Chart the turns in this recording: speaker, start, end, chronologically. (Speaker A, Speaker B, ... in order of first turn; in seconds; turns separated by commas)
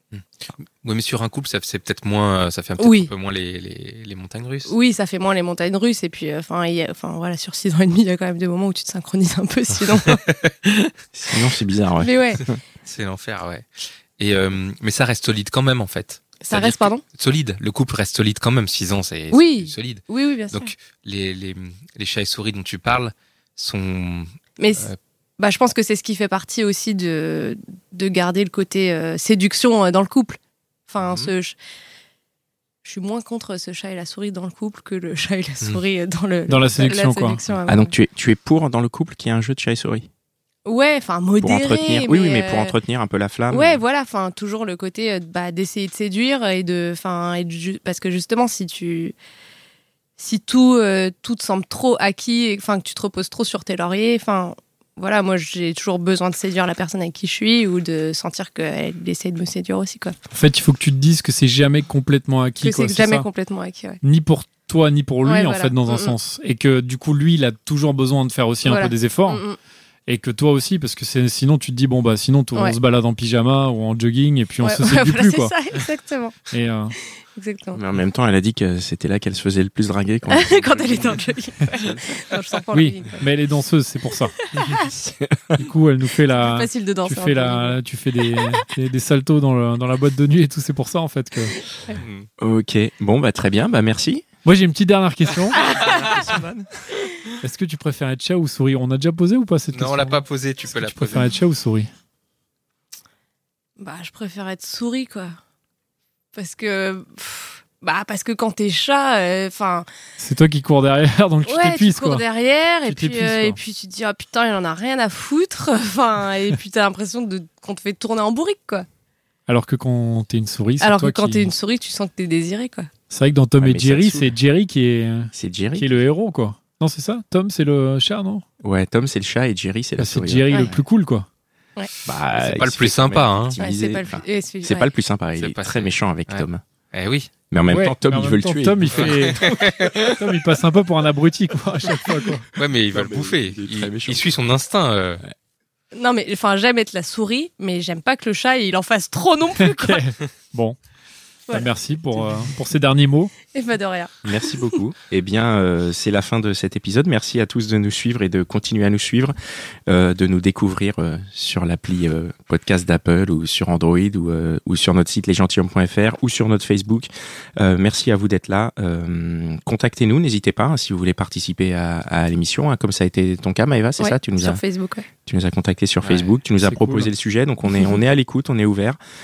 Speaker A: 0.1-4.7, Speaker B: 2.8-3.1, Speaker B: 4.7-10.3, Speaker A: 10.3-10.9, Speaker C: 11.1-12.5, Speaker B: 12.0-12.6, Speaker A: 12.8-25.0, Speaker B: 16.4-17.0, Speaker B: 19.3-20.7, Speaker B: 24.6-31.6, Speaker A: 31.0-31.3, Speaker B: 32.8-37.9, Speaker D: 36.5-37.4, Speaker C: 37.7-40.1, Speaker B: 40.6-42.7, Speaker C: 41.4-43.8, Speaker B: 43.5-49.1, Speaker B: 50.2-60.1, Speaker D: 60.3-63.3, Speaker B: 62.6-64.0, Speaker D: 64.0-69.4, Speaker B: 65.2-66.1, Speaker B: 68.6-69.6, Speaker D: 70.1-75.5, Speaker B: 74.6-76.4, Speaker D: 76.5-76.9, Speaker B: 77.3-77.8, Speaker C: 77.7-81.2, Speaker B: 80.3-83.3, Speaker C: 81.7-82.0, Speaker D: 82.7-84.3, Speaker B: 84.4-84.9, Speaker C: 84.8-85.7, Speaker D: 85.5-91.5, Speaker B: 86.4-87.8, Speaker B: 91.7-92.0, Speaker A: 91.9-92.3, Speaker C: 92.4-94.2, Speaker D: 94.4-96.0, Speaker A: 95.5-96.7, Speaker B: 95.6-96.4, Speaker D: 97.4-101.9, Speaker A: 99.7-101.3, Speaker B: 103.8-105.3, Speaker B: 106.3-109.9, Speaker D: 110.2-112.2, Speaker B: 111.5-118.8, Speaker D: 112.8-113.6, Speaker D: 119.5-121.5, Speaker B: 120.8-122.9, Speaker D: 123.1-128.4, Speaker C: 123.6-124.3, Speaker C: 125.3-126.0, Speaker C: 128.6-130.8, Speaker D: 130.0-131.3, Speaker C: 132.1-136.6, Speaker A: 132.3-133.6, Speaker B: 133.6-134.9, Speaker A: 135.4-137.3, Speaker C: 137.5-139.2, Speaker D: 137.7-142.5, Speaker A: 138.9-140.2, Speaker A: 142.5-145.2, Speaker C: 142.9-144.2, Speaker B: 145.9-150.1, Speaker D: 149.6-150.8, Speaker D: 151.5-153.3, Speaker B: 153.4-154.3, Speaker C: 154.2-159.3, Speaker C: 159.9-174.6, Speaker B: 174.0-175.1, Speaker C: 175.2-179.0, Speaker A: 176.0-176.3, Speaker D: 176.6-177.1, Speaker B: 177.7-178.0